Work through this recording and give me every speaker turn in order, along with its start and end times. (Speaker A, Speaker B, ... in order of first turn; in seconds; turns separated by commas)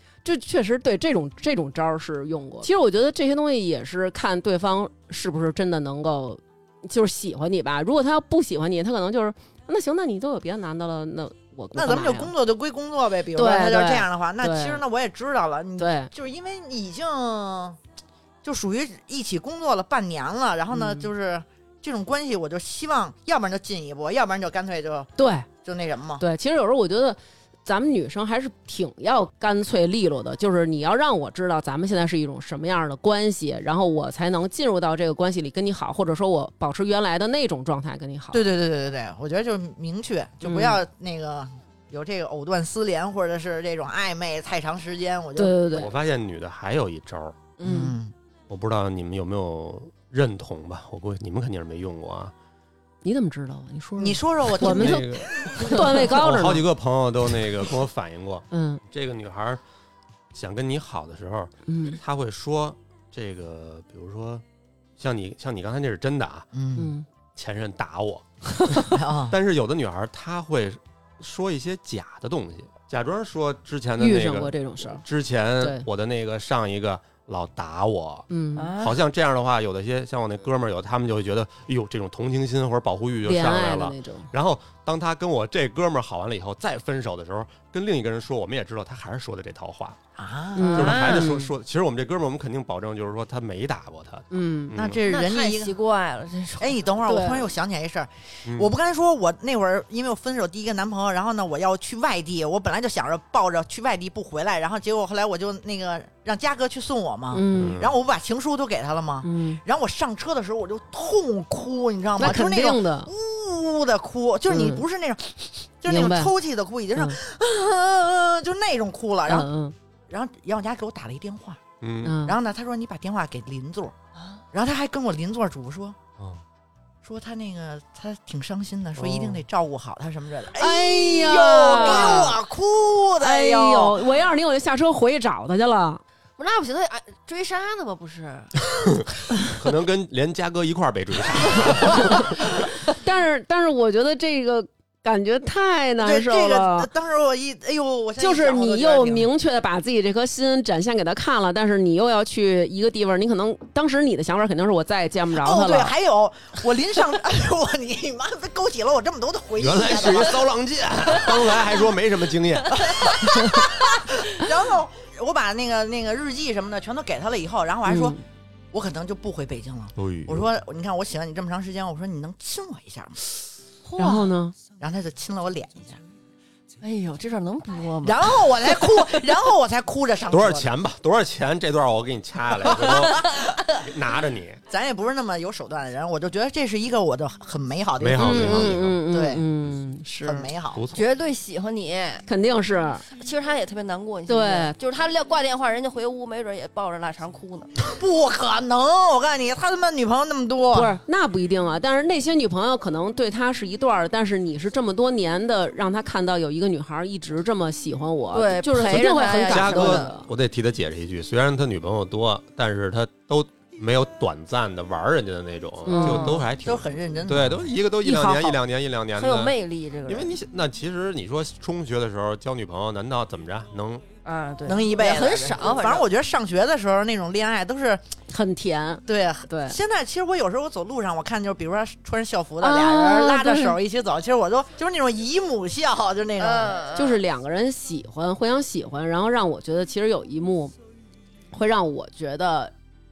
Speaker A: 0.2-12.3, Speaker B: 11.7-17.8, Speaker A: 13.3-14.8, Speaker A: 15.8-16.1, Speaker B: 18.4-25.1, Speaker A: 20.7-21.1, Speaker A: 25.2-25.5, Speaker B: 25.6-26.2, Speaker A: 26.2-38.4, Speaker B: 38.3-45.8, Speaker A: 40.4-40.8, Speaker A: 45.4-45.9, Speaker C: 45.7-47.5, Speaker A: 47.6-47.9, Speaker B: 47.6-48.1, Speaker C: 48.5-52.3, Speaker A: 53.0-56.6, Speaker B: 54.0-55.9, Speaker C: 54.5-59.6, Speaker A: 58.5-58.8, Speaker C: 60.3-64.4, Speaker A: 61.7-62.0, Speaker C: 65.0-66.5, Speaker B: 66.5-66.9, Speaker A: 66.8-67.1, Speaker C: 67.3-78.3, Speaker B: 68.8-69.3, Speaker A: 74.0-75.0, Speaker A: 75.6-75.8, Speaker A: 78.3-78.7, Speaker D: 78.5-79.0, Speaker C: 78.8-90.0, Speaker A: 83.2-84.3, Speaker B: 90.2-91.0, Speaker A: 90.5-91.5, Speaker D: 90.7-91.3, Speaker C: 90.7-95.0, Speaker A: 94.3-94.8, Speaker B: 94.7-95.8, Speaker D: 95.0-97.0, Speaker B: 96.6-119.5, Speaker A: 97.0-97.5, Speaker C: 98.4-98.7, Speaker A: 107.3-107.8, Speaker C: 107.5-107.9, Speaker A: 109.2-109.6, Speaker A: 112.2-113.1, Speaker A: 114.5-114.8, Speaker A: 115.9-116.3, Speaker A: 119.2-119.7, Speaker B: 120.1-121.6, Speaker C: 121.8-122.2, Speaker A: 122.0-122.4, Speaker B: 122.2-123.9, Speaker D: 124.2-124.4, Speaker B: 124.5-126.0, Speaker B: 127.0-134.0, Speaker C: 129.0-129.4, Speaker A: 130.5-132.4, Speaker D: 131.8-132.3, Speaker A: 133.2-136.0, Speaker D: 136.4-138.5, Speaker C: 138.8-142.5, Speaker A: 141.9-142.3, Speaker A: 142.9-146.9, Speaker B: 146.0-149.3, Speaker A: 148.2-155.9, Speaker B: 155.3-160.4, Speaker C: 159.6-163.2, Speaker B: 161.2-161.6, Speaker B: 162.8-168.2, Speaker A: 167.8-168.2, Speaker B: 168.7-173.2, Speaker C: 169.9-170.5, Speaker D: 173.8-174.2, Speaker A: 173.9-174.5, Speaker B: 174.7-176.0, Speaker D: 176.8-179.0, Speaker B: 178.0-180.7, Speaker C: 180.3-184.6, Speaker B: 182.7-183.3, Speaker B: 184.7-189.4, Speaker C: 188.0-189.0, Speaker A: 188.2-190.5, Speaker B: 190.2-190.8, Speaker C: 190.7-191.0, Speaker D: 190.9-192.2, Speaker A: 192.3-193.0, Speaker D: 193.1-197.7, Speaker A: 194.3-194.7, Speaker B: 197.8-200.9, Speaker A: 200.7-210.3, Speaker D: 208.3-210.1, Speaker C: 209.5-219.5, Speaker A: 215.8-216.4, Speaker D: 215.9-216.3, Speaker B: 216.1-217.7, Speaker A: 218.0-218.6, Speaker D: 219.1-220.3, Speaker C: 220.1-224.0, Speaker D: 224.2-226.1, Speaker B: 224.6-228.0, Speaker A: 228.3-229.8, Speaker B: 229.1-236.9, Speaker A: 232.6-233.8, Speaker D: 236.4-237.2, Speaker A: 236.9-240.7, Speaker A: 241.5-242.7